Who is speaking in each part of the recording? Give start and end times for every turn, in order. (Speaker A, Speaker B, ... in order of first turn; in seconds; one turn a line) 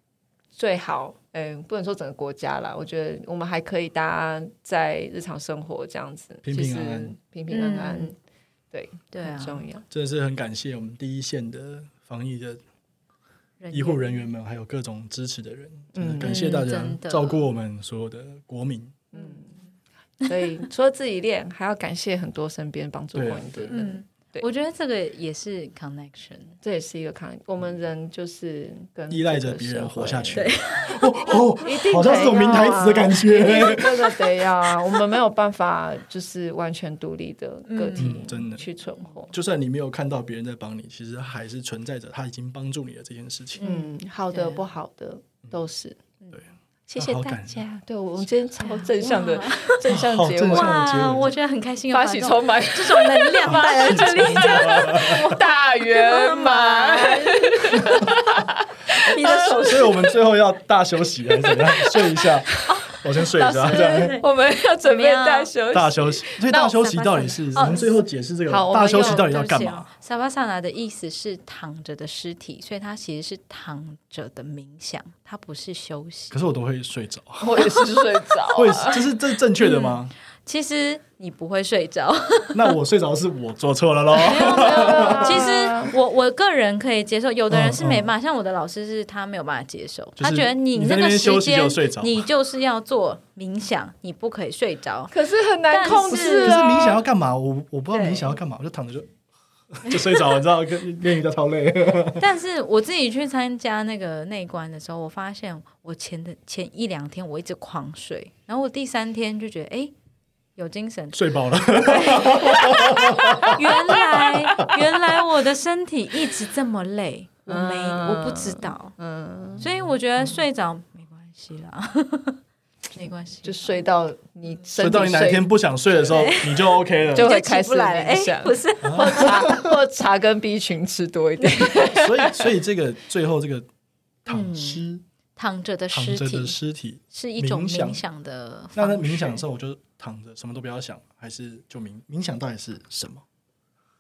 Speaker A: 0.6-8.1
Speaker B: 6.4-7.2
Speaker C: 7.5-8.1
Speaker A: 8.7-9.8
Speaker C: 9.1-9.7
Speaker B: 9.9-12.6
Speaker C: 13.6-14.2
Speaker B: 13.7-19.1
Speaker A: 15.9-16.4
Speaker C: 16.2-17.5
Speaker A: 19.1-19.6
Speaker A: 20.2-24.5
Speaker B: 23.1-23.8
Speaker C: 23.7-26.6
Speaker A: 26.6-30.5
Speaker B: 29.1-34.2
Speaker C: 30.3-31.1
Speaker A: 31.6-39.3
Speaker C: 37.7-38.1
Speaker B: 38.0-38.6
Speaker B: 39.3-43.6
Speaker C: 43.6-44.6
Speaker A: 43.6-46.0
Speaker A: 46.9-50.8
Speaker B: 47.0-47.6
Speaker C: 48.6-49.8
Speaker B: 49.9-51.4
Speaker C: 50.5-58.2
Speaker A: 51.9-59.3
Speaker B: 53.5-55.4
Speaker C: 58.9-60.1
Speaker B: 59.2-64.2
Speaker A: 61.5-62.6
Speaker C: 62.7-64.3
Speaker A: 63.7-67.4
Speaker C: 64.8-65.5
Speaker B: 65.7-69.9
Speaker C: 66.5-68.0
Speaker A: 68.5-69.3
Speaker C: 68.7-76.4
Speaker B: 76.3-77.9
Speaker A: 77.4-79.1
Speaker B: 78.5-80.1
Speaker C: 79.6-82.7
Speaker B: 82.5-85.4
Speaker C: 84.2-95.1
Speaker A: 84.4-86.0
Speaker B: 87.5-88.1
Speaker B: 90.2-92.2
Speaker A: 95.1-97.0
Speaker C: 95.7-96.6
Speaker B: 96.1-99.1
Speaker C: 97.9-98.3
Speaker B: 99.8-102.2
Speaker C: 102.2-109.9
Speaker C: 110.6-118.9
Speaker B: 111.1-114.8
Speaker A: 117.5-119.6
Speaker C: 119.6-122.4
Speaker C: 122.9-123.8
Speaker A: 123.4-125.5
Speaker B: 124.8-127.3
Speaker C: 126.1-129.4
Speaker A: 127.1-132.5
Speaker B: 128.8-129.8
Speaker B: 131.7-133.7
Speaker B: 134.2-135.0
Speaker C: 134.3-134.8
Speaker C: 135.4-136.6
Speaker B: 135.9-138.0
Speaker C: 137.1-139.4
Speaker B: 138.8-143.2